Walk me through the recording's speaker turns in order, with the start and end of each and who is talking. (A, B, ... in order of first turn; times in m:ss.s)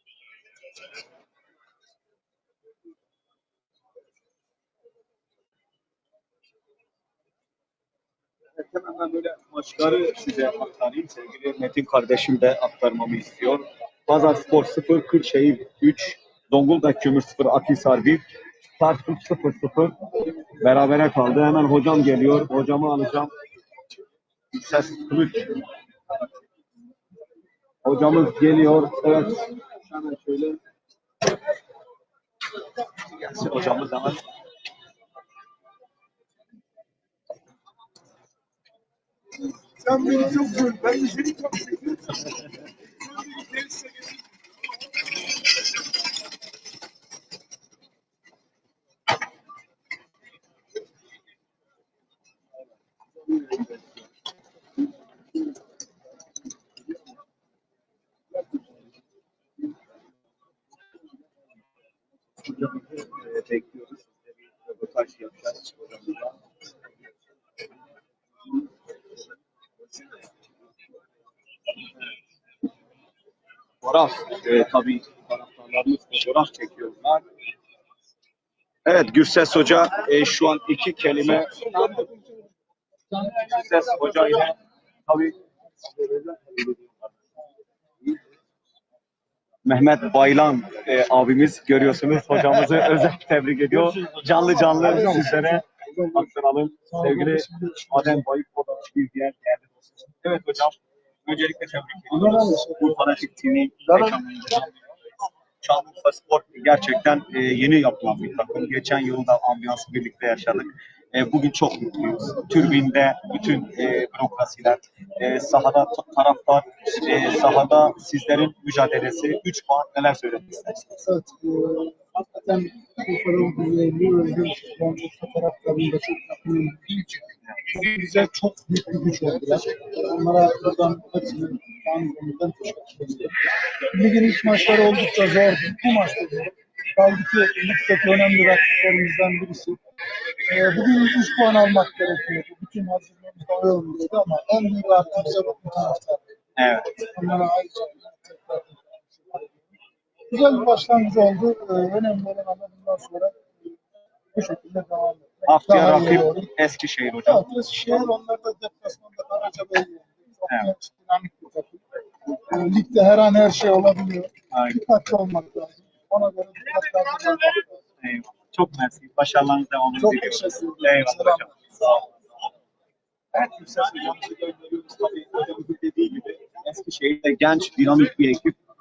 0:08.6-0:18.2 A
0:18.8-0:20.0 A
0:20.6-0:23.3 A
0:24.5-0:25.6 A
0:27.8-0:30.6 A
0:33.0-0:34.2 A
0:39.8-0:41.7 B
1:02.5-1:06.4 A
1:13.8-1:17.2 A
1:18.9-1:22.0 A
1:23.3-1:25.4 A
1:29.6-1:39.7 A
1:34.7-1:36.3 B
1:36.9-1:38.2 B
1:40.2-1:44.7 A
1:42.1-1:43.0 B
1:45.6-2:01.0 A
2:01.0-2:13.3 B
2:13.9-2:19.8 B
2:20.4-2:26.2 B
2:26.6-2:27.0 A
2:27.1-2:29.5 B
2:30.3-2:33.7 B
2:34.3-2:36.5 B
2:35.5-2:37.4 A
2:37.2-2:47.7 B
2:44.5-2:44.8 A
2:48.0-2:51.9 A
2:50.0-2:52.1 B
2:53.3-2:58.6 A